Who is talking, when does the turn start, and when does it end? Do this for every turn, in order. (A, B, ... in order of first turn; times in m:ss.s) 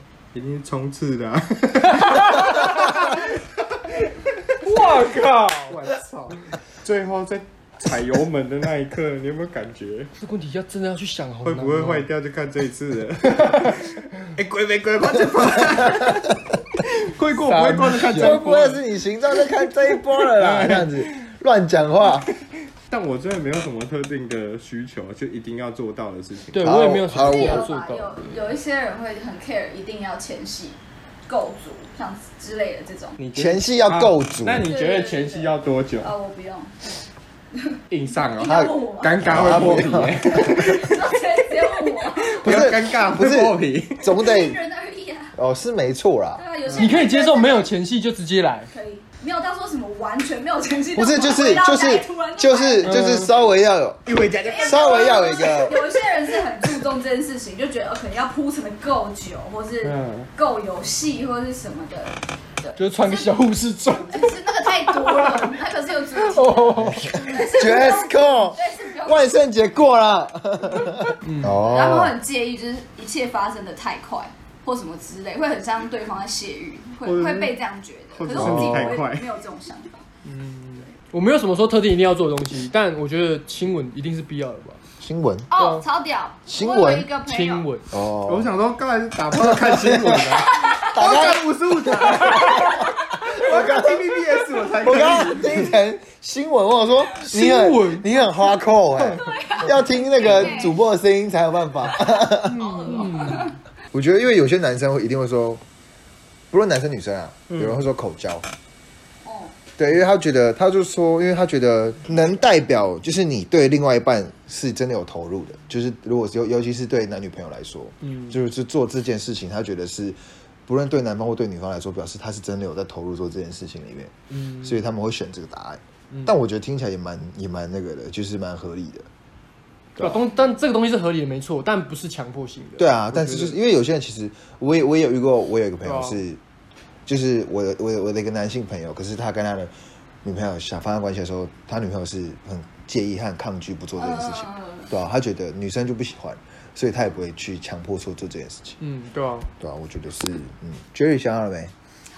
0:00.3-0:05.0 A
0:02.1-0:02.7 B
0:04.6-0:05.8 B
0:05.7-0:10.1 A
0:10.2-0:12.1 B
0:11.4-0:18.8 A
0:15.8-0:16.2 C
0:17.4-0:22.3 C
0:20.2-0:21.3 A
0:22.9-0:26.6 A
0:26.5-0:28.4 B
0:26.6-0:27.6 C
0:27.2-0:33.2 D
0:33.2-0:36.1 A
0:33.3-0:34.7 C
0:34.6-0:36.9 D
0:37.5-0:39.2 D
0:37.9-0:41.1 A
0:38.4-0:40.5 C
0:40.2-0:42.6 D
0:41.8-0:44.1 A
0:42.4-0:44.6 C
0:44.2-0:45.4 D
0:45.4-0:46.4 C
0:46.4-0:47.7 D
0:46.7-0:48.7 B
0:48.7-0:53.0 D
0:51.0-0:54.0 C
0:52.8-0:53.3 A
0:54.1-0:55.3 A
0:54.4-1:03.4 D
0:54.6-0:55.8 C
0:59.8-1:00.3 A
1:02.8-1:05.4 B
1:04.0-1:09.3 D
1:06.2-1:07.3 B
1:06.8-1:12.2 C
1:11.2-1:11.6 B
1:11.6-1:20.0 D
1:17.0-1:17.6 A
1:18.1-1:19.3 A
1:18.4-1:18.8 C
1:20.3-1:24.8 B
1:25.0-1:25.5 C
1:25.5-1:27.7 D
1:25.6-1:25.8 B
1:26.5-1:27.1 C
1:27.3-1:27.9 B
1:27.9-1:28.5 C
1:28.2-1:35.8 A
1:29.3-1:34.1 C
1:30.4-1:31.3 D
1:32.4-1:33.0 D
1:34.8-1:42.6 C
1:37.3-1:38.1 B
1:39.2-1:40.8 D
1:41.9-1:43.6 D
1:42.5-1:43.5 B
1:43.9-1:45.6 C
1:46.5-1:48.5 C
1:49.2-1:49.6 D
1:49.8-2:09.1 C
2:04.4-2:04.8 B
2:10.0-2:10.2 C
2:10.0-2:13.6 B
2:12.8-2:16.4 C
2:15.8-2:16.2 B
2:17.1-2:19.7 C
2:20.2-2:28.8 C
2:24.0-2:24.9 D
2:28.8-2:29.5 B
2:29.6-2:31.7 C